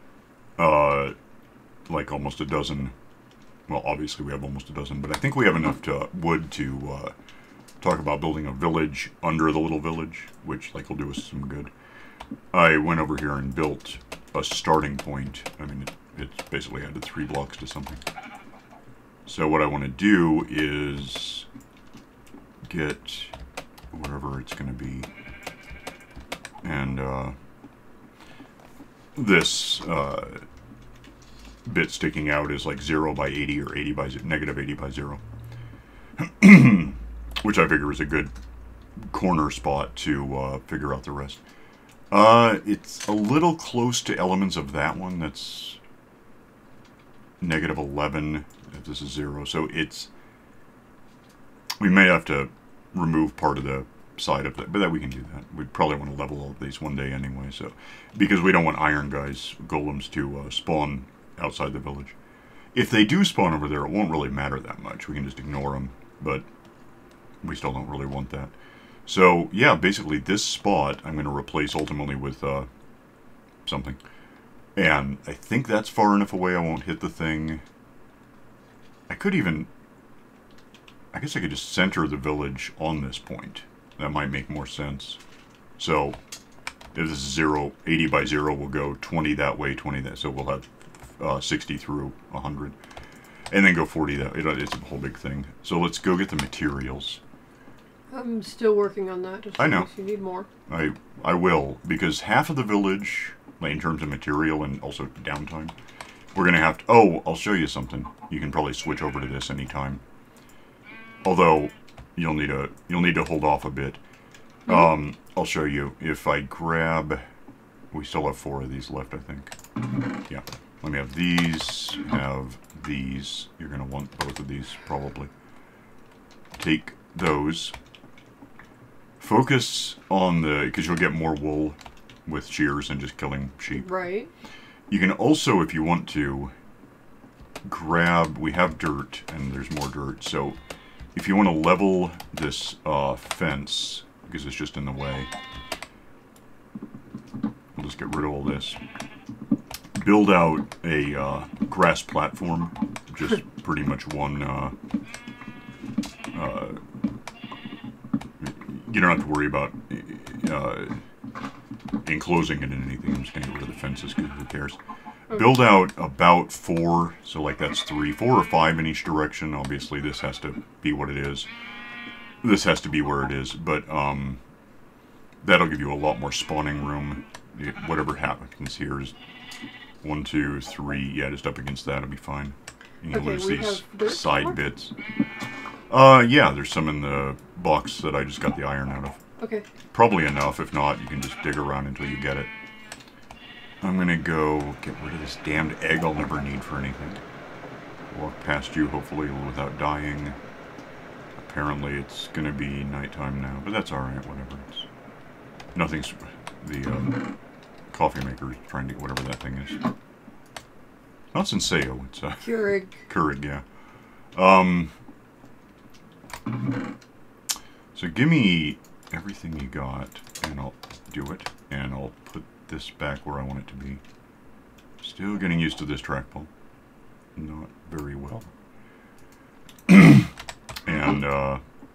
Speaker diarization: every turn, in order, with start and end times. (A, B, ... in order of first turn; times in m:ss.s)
0:00.6-0:01.1 A
0:01.9-0:02.9 A
0:03.7-0:07.1 A
0:07.8-0:11.7 A
0:12.5-0:18.0 A
0:19.2-0:21.5 A
0:22.6-0:23.3 A
0:23.9-0:25.1 A
0:26.6-0:27.3 A
0:29.1-0:30.4 A
0:31.6-0:35.2 A
0:36.2-0:38.3 A
0:39.0-0:41.4 A
0:42.1-0:45.8 A
0:47.4-0:50.1 A
0:51.8-1:02.2 A
1:02.7-1:06.4 A
1:07.4-1:08.5 A
1:09.0-1:12.7 A
1:13.6-1:14.0 A
1:14.8-1:17.6 A
1:19.1-1:19.7 A
1:21.1-1:25.2 A
1:25.8-1:26.2 A
1:26.9-1:30.7 A
1:31.2-1:32.8 A
1:33.5-1:37.2 A
1:38.1-1:40.5 B
1:39.6-1:39.9 A
1:40.7-1:45.7 A
1:46.3-1:50.0 A
1:51.2-1:54.0 A
1:54.7-1:57.2 A
1:57.9-1:59.5 A
2:00.3-2:05.3 A
2:06.6-2:07.7 A
2:09.2-2:13.9 A
2:13.7-2:14.3 B
2:14.9-2:16.5 A
2:17.6-2:20.6 A
2:21.1-2:25.3 A
2:27.7-2:28.8 A
2:29.9-2:34.7 A
2:36.3-2:36.8 A
2:38.4-2:41.0 A
2:42.0-2:44.8 A
2:45.3-2:51.5 A
2:52.4-2:54.4 A
2:55.4-2:59.1 A
3:00.0-3:04.9 A
3:03.1-3:04.6 B
3:05.9-3:09.2 A
3:09.4-3:09.6 B
3:09.9-3:12.5 A
3:13.8-3:17.2 A
3:18.1-3:20.4 A
3:21.4-3:24.9 A
3:25.7-3:27.2 A
3:27.9-3:29.8 A
3:31.3-3:33.6 A
3:32.4-3:33.0 B
3:34.3-3:34.9 A
3:37.9-3:44.0 A
3:45.0-3:46.5 A
3:47.4-3:48.5 A
3:49.9-3:50.3 A
3:50.8-3:51.6 A